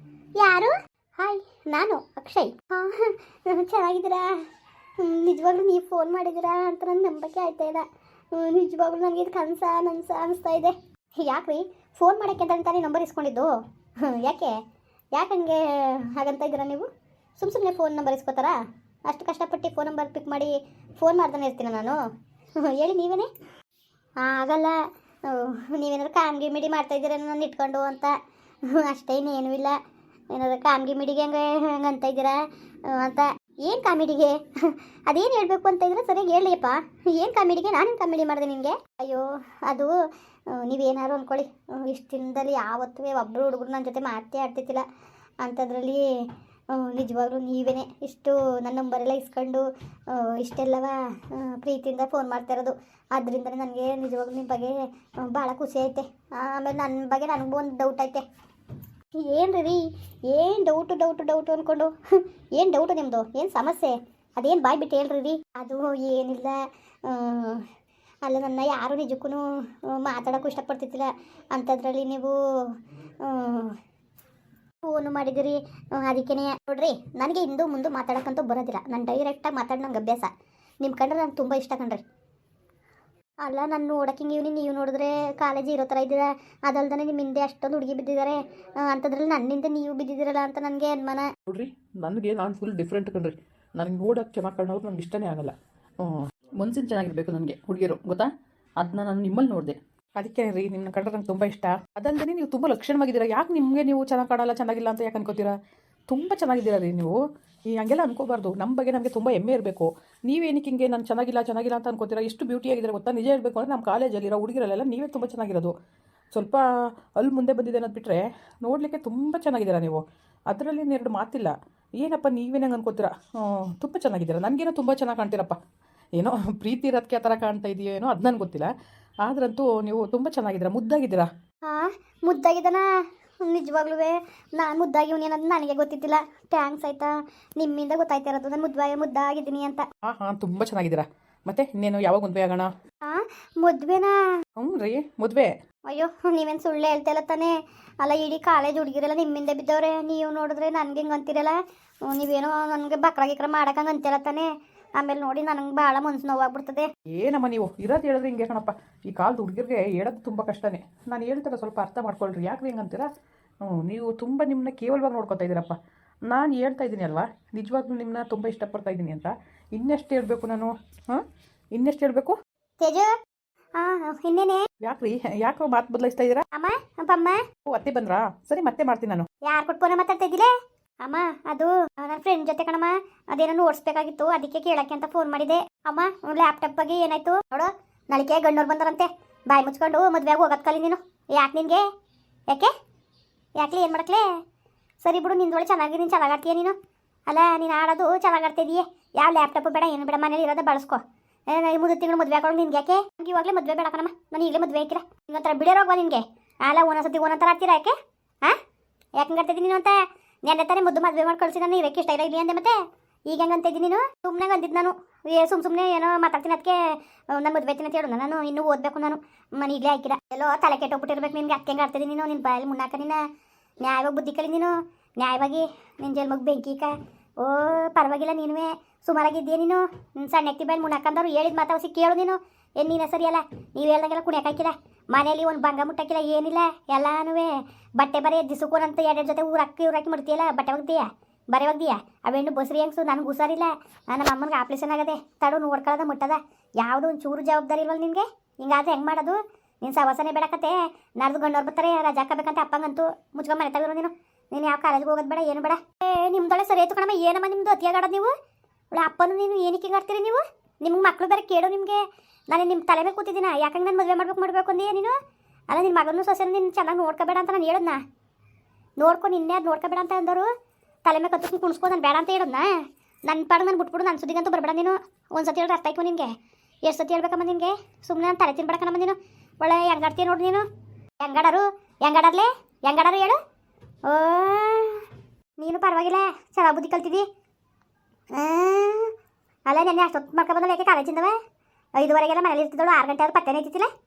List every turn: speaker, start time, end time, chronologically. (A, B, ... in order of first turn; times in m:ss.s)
0:00.4-0:04.4 A
0:05.0-0:13.5 A
0:14.0-0:14.6 A
0:15.1-0:16.9 A
0:17.4-0:18.6 A
0:19.1-0:22.0 A
0:22.6-0:23.3 A
0:24.2-0:28.2 A
0:28.7-0:29.8 A
0:30.3-0:39.9 A
0:40.5-0:44.8 A
0:45.4-0:46.1 A
0:46.7-0:58.2 A
0:59.2-1:01.9 A
1:02.6-1:07.6 A
1:08.2-1:13.8 A
1:14.8-1:20.3 A
1:20.8-1:22.0 A
1:23.4-1:31.3 A
1:31.5-1:45.6 B
1:46.1-1:47.2 B
1:47.7-1:55.7 B
1:56.3-2:05.6 B
2:06.2-2:08.7 B
2:09.2-2:11.3 B
2:11.7-2:12.9 A
2:13.4-2:19.8 A
2:20.0-2:22.7 B
2:23.0-2:24.2 A
2:24.6-2:25.6 B
2:25.9-2:36.9 A
2:37.1-2:43.1 B
2:43.6-2:45.8 B
2:46.3-2:52.4 B
2:52.8-2:53.1 A
2:53.8-2:54.6 A
2:54.8-2:56.4 B
2:56.5-2:57.4 A
2:57.7-2:59.3 B
2:59.4-3:11.8 A
3:13.6-3:14.3 A
3:15.0-3:16.8 A
3:17.3-3:28.6 A
3:29.2-3:32.8 A
3:33.3-3:43.2 A
3:43.8-4:18.4 A
4:18.9-4:25.2 A
4:25.7-4:28.0 A
4:29.0-4:30.5 A
4:31.0-4:40.7 A
4:41.2-4:43.4 A
4:44.0-4:45.1 A
4:45.6-4:47.3 A
4:48.3-4:49.1 A
4:49.7-4:51.4 A
4:52.0-4:53.9 A